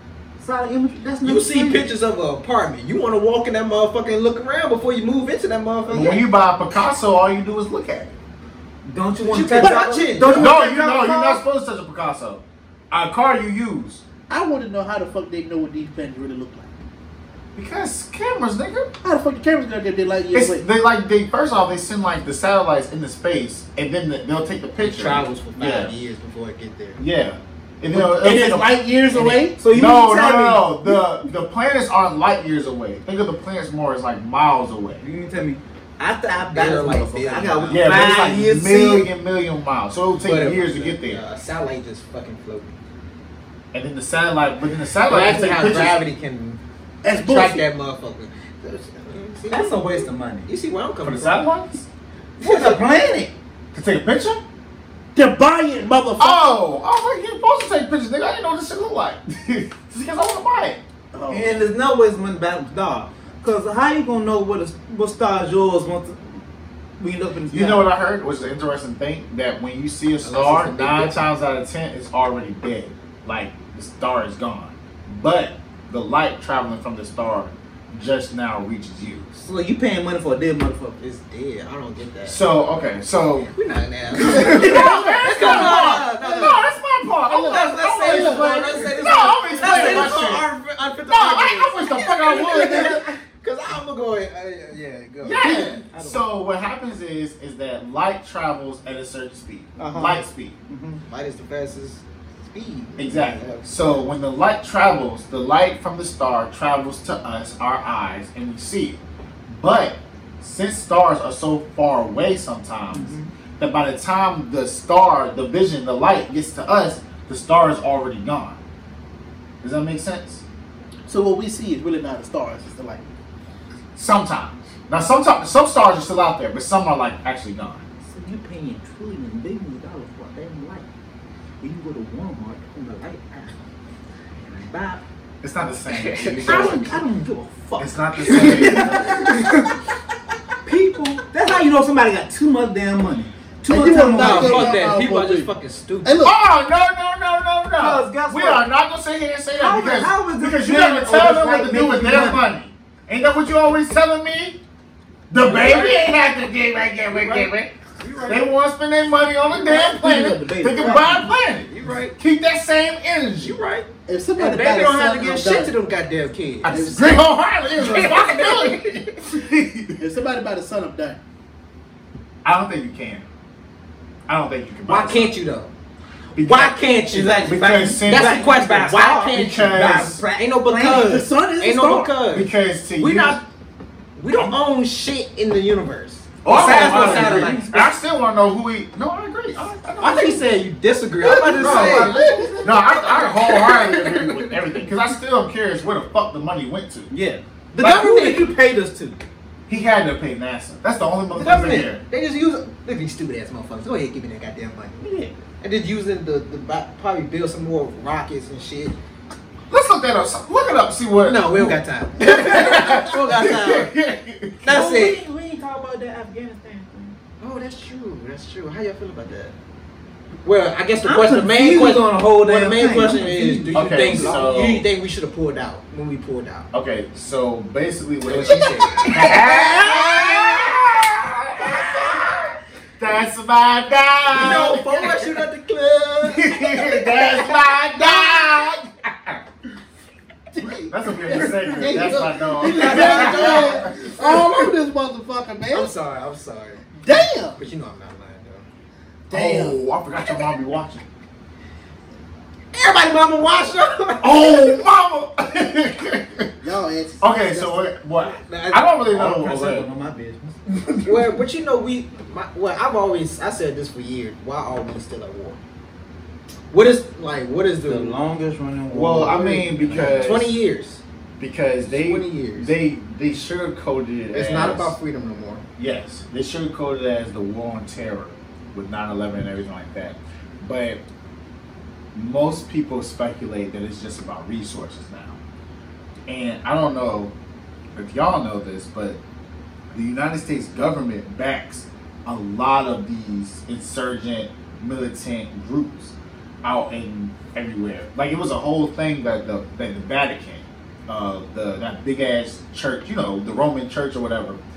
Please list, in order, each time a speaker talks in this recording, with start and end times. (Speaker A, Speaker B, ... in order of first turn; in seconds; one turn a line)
Speaker A: 0.4-1.9
Speaker B: 1.2-6.2
Speaker C: 5.9-8.1
Speaker A: 8.8-11.4
Speaker B: 9.2-10.5
Speaker D: 9.5-10.3
Speaker C: 10.3-14.0
Speaker D: 14.3-16.7
Speaker C: 17.5-18.9
Speaker D: 19.0-20.6
Speaker C: 20.3-26.0
Speaker B: 24.8-27.0
Speaker C: 27.0-35.0
Speaker D: 27.9-29.6
Speaker A: 29.6-31.0
Speaker A: 35.0-39.1
Speaker B: 36.5-38.1
Speaker C: 37.7-41.2
Speaker B: 40.2-42.8
Speaker C: 43.7-46.0
Speaker B: 45.0-46.6
Speaker D: 47.0-47.6
Speaker B: 47.1-51.4
Speaker A: 49.5-50.5
Speaker C: 51.0-51.9
Speaker A: 52.4-53.3
Speaker B: 52.4-52.8
Speaker C: 53.7-54.4
Speaker D: 55.1-56.5
Speaker C: 56.2-60.8
Speaker D: 61.1-61.6
Speaker A: 61.3-66.4
Speaker A: 67.0-67.9
Speaker C: 67.5-79.5
Speaker B: 70.2-71.2
Speaker A: 79.4-81.0
Speaker B: 81.0-82.4
Speaker C: 82.2-83.5
Speaker B: 83.5-86.6
Speaker C: 84.2-90.5
Speaker A: 84.3-84.7
Speaker D: 84.4-86.6
Speaker D: 87.2-90.1
Speaker B: 87.3-96.2
Speaker C: 91.1-93.0
Speaker D: 92.5-93.0
Speaker C: 95.2-100.5
Speaker A: 99.8-101.0
Speaker B: 101.1-104.1
Speaker C: 103.0-118.6
Speaker A: 112.9-113.3
Speaker C: 119.6-120.4
Speaker D: 121.1-123.0
Speaker C: 124.0-127.8
Speaker A: 128.1-130.8
Speaker A: 131.6-133.6
Speaker A: 134.4-135.0
Speaker C: 135.4-137.0
Speaker B: 135.9-136.7
Speaker A: 136.3-139.8
Speaker C: 137.8-139.5
Speaker D: 138.4-139.3
Speaker B: 138.4-138.9
Speaker A: 140.6-144.8
Speaker D: 143.7-145.5
Speaker B: 144.2-146.3
Speaker D: 146.0-146.3
Speaker C: 146.2-154.6
Speaker A: 147.8-148.6
Speaker A: 149.5-152.4
Speaker C: 155.3-157.7
Speaker B: 155.4-156.0
Speaker B: 157.1-158.5
Speaker C: 158.2-163.6
Speaker A: 159.5-161.3
Speaker B: 161.7-162.2
Speaker B: 163.4-167.2
Speaker D: 164.1-165.7
Speaker C: 166.6-170.0
Speaker D: 166.7-167.2
Speaker B: 167.8-169.3
Speaker D: 170.0-171.2
Speaker C: 172.4-173.2
Speaker C: 174.3-175.3
Speaker B: 174.8-175.7
Speaker C: 176.3-176.8
Speaker B: 176.4-183.4
Speaker A: 177.1-181.1
Speaker C: 177.4-178.5
Speaker C: 179.3-180.2
Speaker D: 180.9-182.1
Speaker C: 182.3-183.4
Speaker B: 184.2-187.8
Speaker C: 186.4-190.4
Speaker A: 186.5-187.8
Speaker B: 190.0-194.7
Speaker A: 191.2-193.1
Speaker C: 191.5-197.1
Speaker D: 191.6-192.5
Speaker A: 197.1-199.2
Speaker B: 197.7-198.5
Speaker C: 199.7-202.0
Speaker B: 201.3-205.1
Speaker A: 205.0-205.4
Speaker B: 205.6-208.9
Speaker C: 209.7-214.8
Speaker B: 211.2-213.9
Speaker B: 214.6-215.2
Speaker A: 214.7-217.2
Speaker B: 217.4-219.5
Speaker B: 220.4-226.7
Speaker A: 221.0-224.8
Speaker C: 223.7-224.8
Speaker C: 226.7-232.3
Speaker B: 228.2-230.6
Speaker A: 229.0-230.2
Speaker B: 231.6-232.2
Speaker C: 233.0-235.1
Speaker B: 234.3-238.4
Speaker C: 236.2-239.4
Speaker D: 240.5-245.9
Speaker C: 240.8-244.0
Speaker B: 241.7-244.7
Speaker B: 245.7-248.6
Speaker D: 247.0-247.6
Speaker D: 249.3-249.8
Speaker C: 249.3-251.0
Speaker B: 252.7-254.8
Speaker C: 254.2-256.6
Speaker D: 256.6-257.9
Speaker C: 257.2-259.9
Speaker B: 258.2-258.9
Speaker A: 259.1-261.4
Speaker D: 259.1-259.4
Speaker B: 261.0-265.6
Speaker B: 266.7-268.1
Speaker A: 267.8-270.4
Speaker C: 268.9-270.5
Speaker B: 269.9-271.0
Speaker C: 271.4-274.9
Speaker B: 271.9-272.7
Speaker B: 274.3-275.6
Speaker C: 275.8-281.0
Speaker C: 282.1-285.4
Speaker C: 286.3-287.3
Speaker C: 287.9-289.2
Speaker C: 289.9-304.6